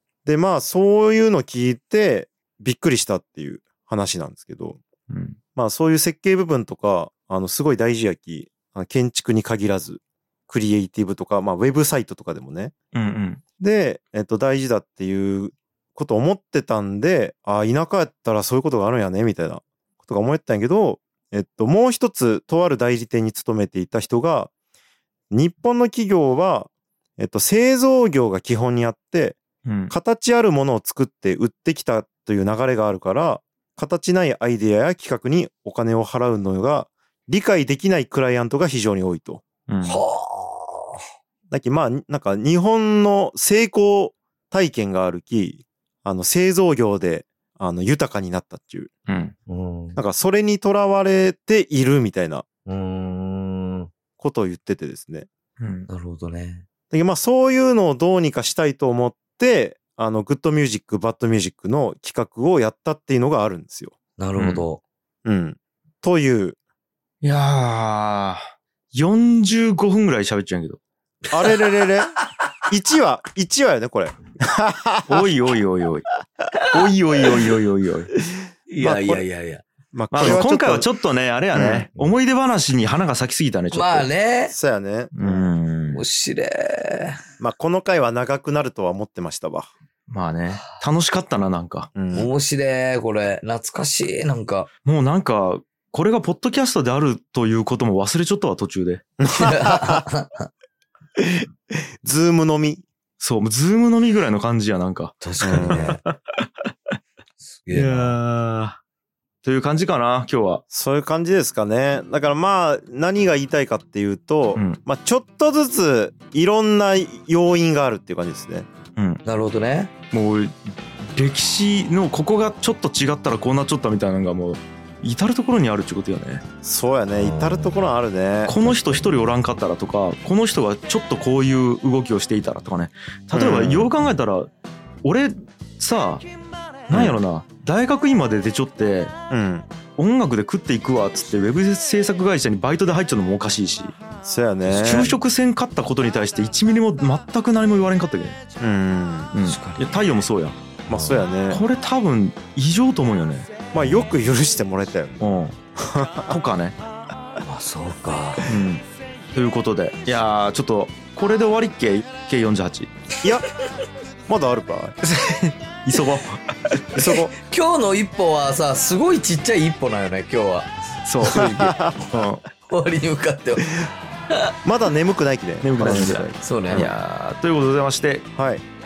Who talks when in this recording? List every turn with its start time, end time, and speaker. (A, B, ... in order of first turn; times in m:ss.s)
0:00.2-0:04.8 A
0:05.1-0:05.4 B
0:05.6-0:12.7 A
0:12.9-0:13.4 B
0:13.6-0:24.5 A
0:25.3-0:39.4 A
0:29.6-0:29.9 B
0:39.7-0:40.0 B
0:39.8-0:41.0 C
0:41.5-0:48.9 A
0:49.1-0:49.3 B
0:49.5-0:50.0 C
0:50.0-0:52.4 A
0:52.6-0:53.9 C
0:54.2-0:55.3 A
0:55.6-0:55.9 B
0:55.9-0:56.6 C
0:56.9-1:04.0 A
1:04.2-1:04.8 C
1:04.4-1:04.6 B
1:05.2-1:06.6 A
1:07.2-1:10.8 B
1:11.3-1:12.1 A
1:11.4-1:11.8 C
1:12.7-1:15.3 A
1:15.0-1:16.0 B
1:16.7-1:18.1 B
1:18.7-1:19.6 C
1:18.8-1:19.2 A
1:19.9-1:20.9 A
1:20.1-1:24.1 B
1:21.5-1:21.9 A
1:23.7-1:24.5 C
1:24.5-1:25.5 A
1:25.1-1:26.0 B
1:25.9-1:27.2 C
1:27.4-1:29.7 A
1:30.1-1:31.9 B
1:31.9-1:32.3 A
1:32.1-1:34.7 C
1:34.8-1:39.0 B
1:39.2-1:40.0 A
1:39.3-1:40.5 C
1:41.2-1:41.5 A
1:42.0-1:42.8 A
1:43.2-1:46.2 B
1:45.2-1:46.0 C
1:45.4-1:46.0 A
1:47.4-1:48.2 C
1:47.7-1:48.8 B
1:49.4-1:50.6 B
1:50.7-1:58.7 A
1:54.5-1:54.8 B
1:59.0-1:59.2 B
1:59.2-1:59.9 C
2:00.1-2:06.4 B
2:06.6-2:09.1 A
2:07.2-2:07.8 C
2:08.4-2:14.5 B
2:13.3-2:13.9 A
2:15.0-2:16.2 B
2:16.9-2:19.1 B
2:16.9-2:17.2 A
2:19.3-2:19.7 A
2:20.0-2:23.9 B
2:24.2-2:25.1 A
2:24.6-2:28.4 B
2:28.6-2:29.3 A
2:29.3-2:30.6 B
2:29.4-2:29.9 C
2:30.9-2:31.6 A
2:30.9-2:31.3 C
2:31.5-2:33.5 B
2:33.7-2:36.3 A
2:35.2-2:35.5 B
2:36.3-2:36.8 B
2:37.4-2:38.5 C
2:38.4-2:42.9 B
2:44.3-2:45.0 A
2:45.0-2:46.4 B
2:46.9-2:47.3 A
2:47.3-2:50.7 C
2:51.0-2:52.4 B
2:51.2-2:52.0 A
2:51.2-2:51.5 C
2:52.6-2:54.5 C
2:54.6-2:56.9 A
2:55.6-2:58.3 B
2:55.8-2:56.9 C
2:58.3-2:58.6 A